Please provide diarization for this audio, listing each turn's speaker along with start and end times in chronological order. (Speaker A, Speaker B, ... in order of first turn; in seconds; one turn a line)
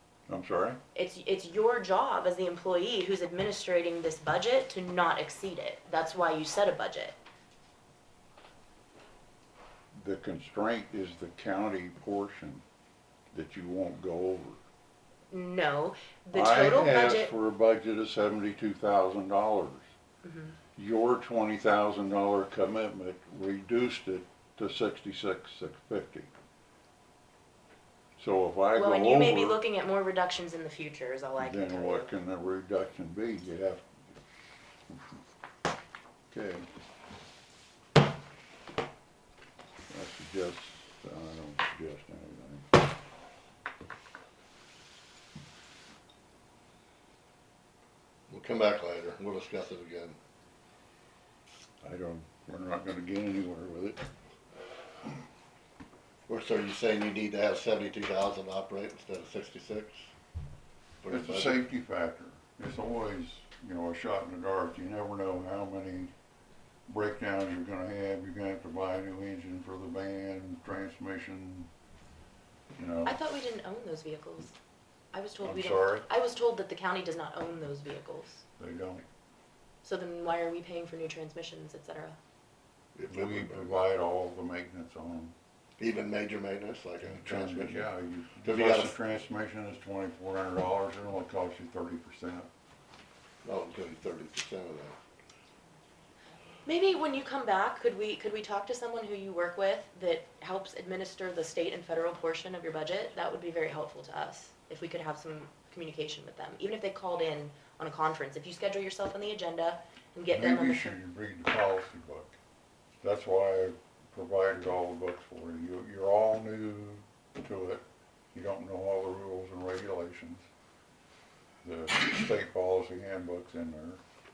Speaker A: 0.3-0.8
Speaker B: 0.9-7.1
Speaker A: 9.9-12.6
Speaker A: 13.3-14.6
Speaker B: 15.3-17.3
Speaker A: 16.3-19.8
Speaker B: 20.2-20.5
Speaker A: 20.8-26.3
Speaker A: 28.2-29.6
Speaker B: 28.7-32.1
Speaker A: 31.4-33.9
Speaker A: 34.9-35.1
Speaker A: 36.3-36.6
Speaker A: 39.9-42.7
Speaker C: 48.3-50.2
Speaker A: 51.8-54.0
Speaker C: 56.3-60.1
Speaker C: 61.0-61.5
Speaker A: 61.1-66.1
Speaker A: 66.9-71.7
Speaker A: 72.8-73.2
Speaker B: 73.0-74.5
Speaker B: 75.1-78.4
Speaker A: 75.4-76.1
Speaker A: 78.6-79.0
Speaker B: 79.8-82.2
Speaker C: 82.9-83.8
Speaker A: 83.1-85.3
Speaker C: 85.8-87.9
Speaker A: 87.1-92.5
Speaker C: 88.4-88.9
Speaker C: 93.4-94.9
Speaker B: 96.7-111.0
Speaker A: 110.3-112.3
Speaker A: 113.0-120.4
Speaker A: 121.6-124.0